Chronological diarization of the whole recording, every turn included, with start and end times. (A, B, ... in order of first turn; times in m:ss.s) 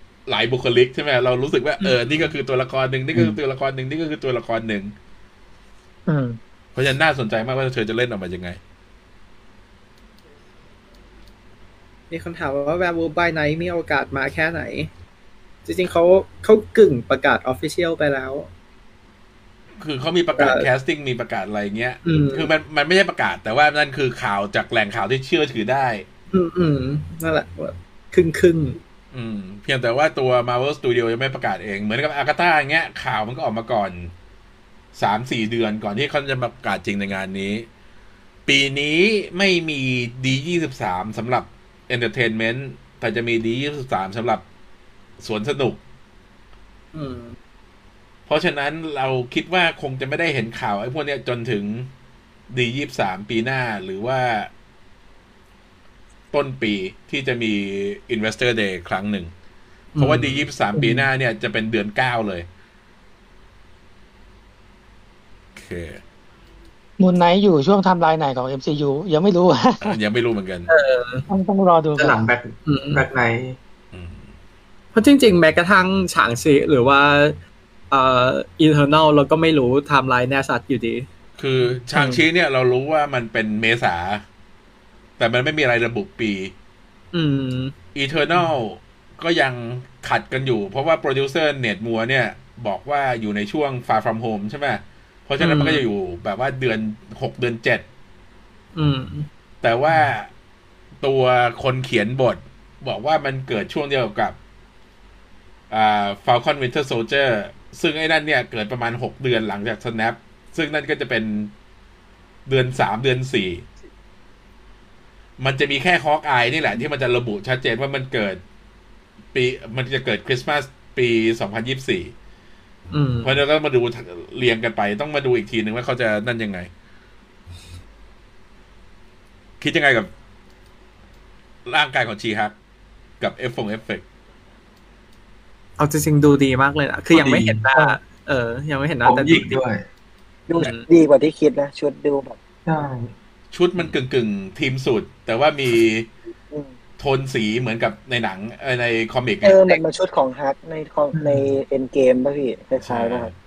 0:00.3-0:04.9 A
0:01.8-0:02.4 B
0:06.1-0:06.4 C
0:06.8-0:08.6 A
0:12.1-0:14.9 B
0:15.7-0:18.5 B
0:19.8-0:26.0 A
0:20.4-0:20.7 B
0:22.0-0:22.5 B
0:26.3-0:28.8 B
0:29.1-0:34.1 A
0:35.0-0:37.7 A
0:38.5-0:44.4 A
0:45.2-0:45.8 A
0:46.9-0:47.4 B
0:48.3-0:51.9 A
0:52.5-0:54.5 A
0:56.3-0:59.3 A
1:00.0-1:00.5 B
1:00.0-1:02.5 A
1:00.8-1:01.0 C
1:05.6-1:06.0 A
1:07.0-1:10.0 C
1:09.8-1:10.7 A
1:10.7-1:11.3 B
1:11.3-1:12.2 C
1:12.0-1:13.6 D
1:12.6-1:13.1 B
1:13.9-1:14.3 A
1:14.9-1:17.4 B
1:17.9-1:21.1 B
1:21.4-1:24.2 A
1:25.2-1:26.5 A
1:27.1-1:27.8 B
1:28.0-1:37.8 A
1:35.4-1:35.9 B
1:38.8-1:39.3 B
1:39.6-1:40.3 A
1:41.0-1:44.4 A
1:45.7-1:51.5 A
1:52.5-1:53.6 A
1:55.4-1:58.4 A
1:59.3-2:02.1 A
2:02.9-2:03.4 B
2:03.2-2:06.7 A
2:09.6-2:10.1 A
2:11.7-2:12.5 A
2:13.2-2:14.0 A
2:15.8-2:19.6 B
2:17.1-2:17.7 D
2:19.0-2:19.8 D
2:20.5-2:22.4 E
2:20.6-2:20.9 B
2:22.7-2:23.1 D
2:23.5-2:26.1 A
2:27.0-2:29.8 A
2:29.4-2:33.3 E
2:31.1-2:31.5 D
2:32.8-2:33.3 A